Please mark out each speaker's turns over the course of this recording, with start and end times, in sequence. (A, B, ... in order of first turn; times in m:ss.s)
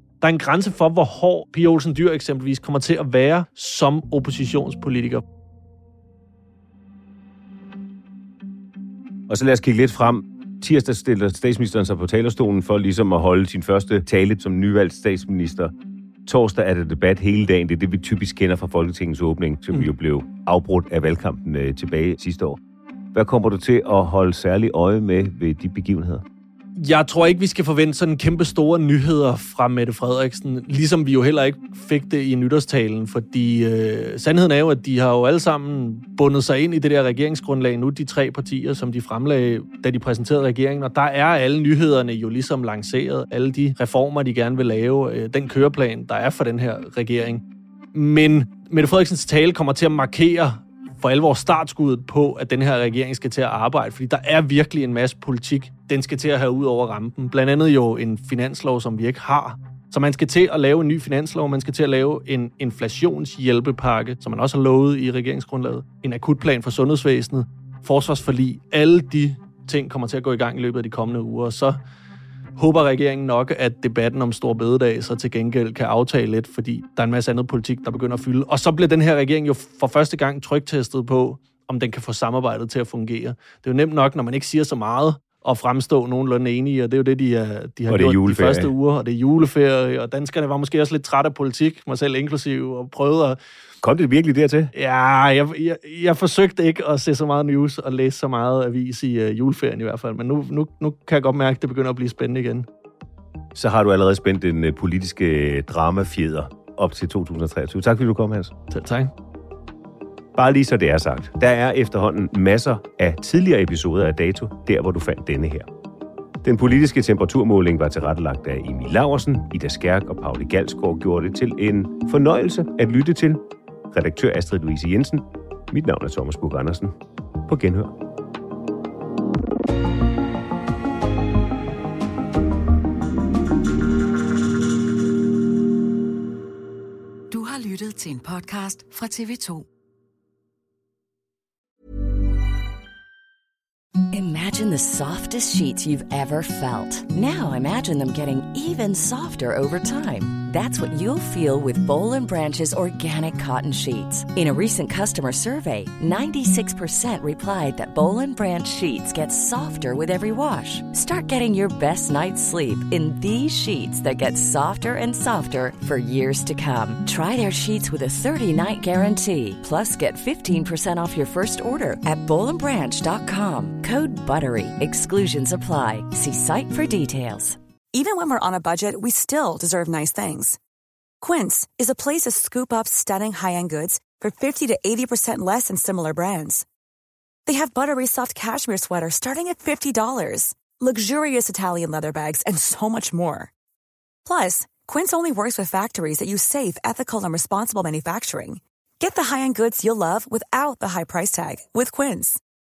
0:00.2-0:05.2 A
0:09.3-0:15.7 B
0:16.2-0:22.6 B
0:23.1-0:26.2 B
0:26.8-1:11.8 A
1:12.6-1:33.4 A
1:27.9-1:28.7 B
1:33.8-1:34.7 B
1:34.7-1:42.6 A
1:43.5-1:48.5 B
1:48.7-1:49.1 A
1:50.3-1:55.7 B
1:56.4-2:03.4 B
2:03.9-2:06.9 B
2:07.5-2:07.9 B
2:17.3-2:19.6 C
2:24.1-2:57.6 D
2:57.9-3:00.6 E
3:01.2-3:06.6 E
3:07.4-3:13.5 E
3:14.2-3:22.4 E